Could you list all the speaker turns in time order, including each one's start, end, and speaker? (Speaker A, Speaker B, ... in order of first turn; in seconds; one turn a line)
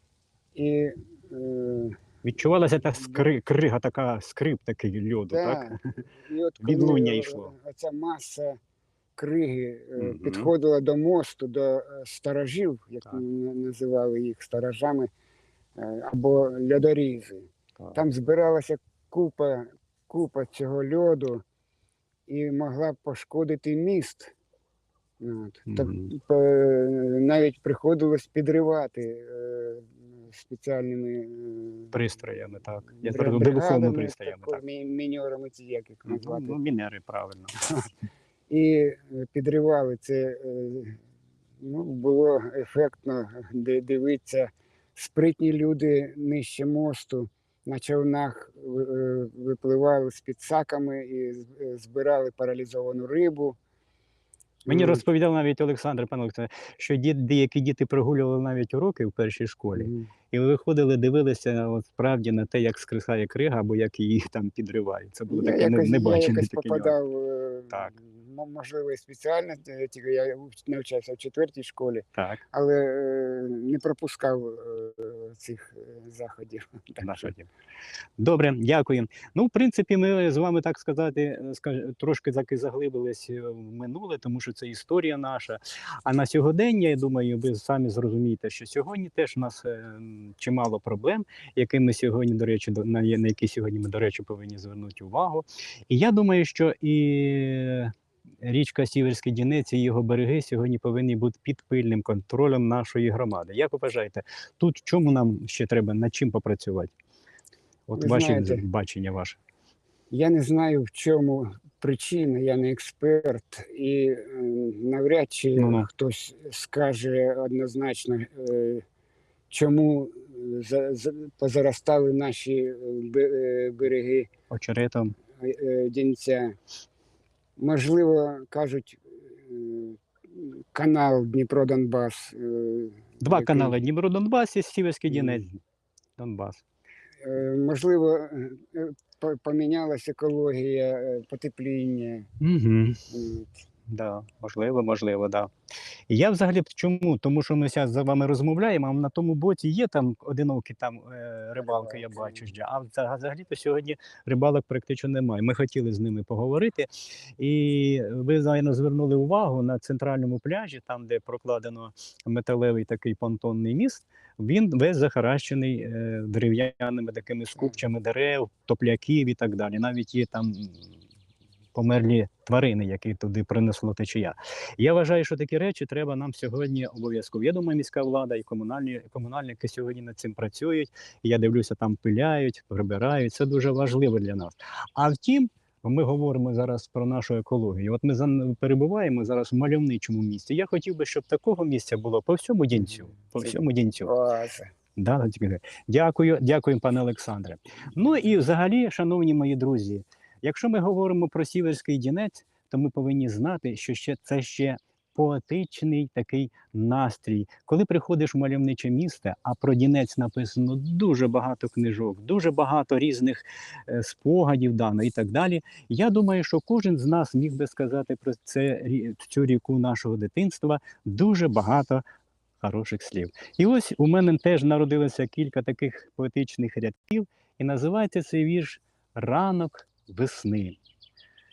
Speaker A: 0.5-2.0
Speaker B: 2.2-5.8
Speaker A: 5.3-8.6
Speaker B: 6.6-7.5
Speaker A: 9.2-15.1
Speaker B: 10.0-10.5
Speaker A: 15.8-21.4
Speaker A: 22.3-24.3
Speaker A: 25.2-31.9
Speaker B: 25.7-26.1
Speaker B: 31.9-34.6
Speaker A: 33.0-36.6
Speaker B: 36.1-37.9
Speaker A: 38.5-41.0
Speaker A: 41.6-53.6
Speaker A: 54.7-55.0
Speaker B: 54.7-67.0
Speaker A: 59.7-60.1
Speaker A: 65.3-77.3
Speaker B: 77.0-77.5
Speaker B: 78.2-106.9
Speaker B: 107.9-109.4
Speaker A: 108.0-108.6
Speaker A: 110.1-118.8
Speaker B: 115.6-115.9
Speaker A: 119.5-124.3
Speaker B: 124.5-125.2
Speaker A: 125.4-126.5
Speaker A: 127.6-133.8
Speaker B: 133.2-135.6
Speaker A: 135.1-135.4
Speaker B: 136.2-136.6
Speaker A: 137.2-142.3
Speaker B: 142.4-143.0
Speaker A: 143.1-143.6
Speaker B: 143.9-145.5
Speaker B: 146.1-170.9
Speaker A: 151.6-152.5
Speaker B: 171.7-194.1
Speaker A: 193.4-194.7
Speaker B: 195.0-222.0
Speaker B: 222.6-230.8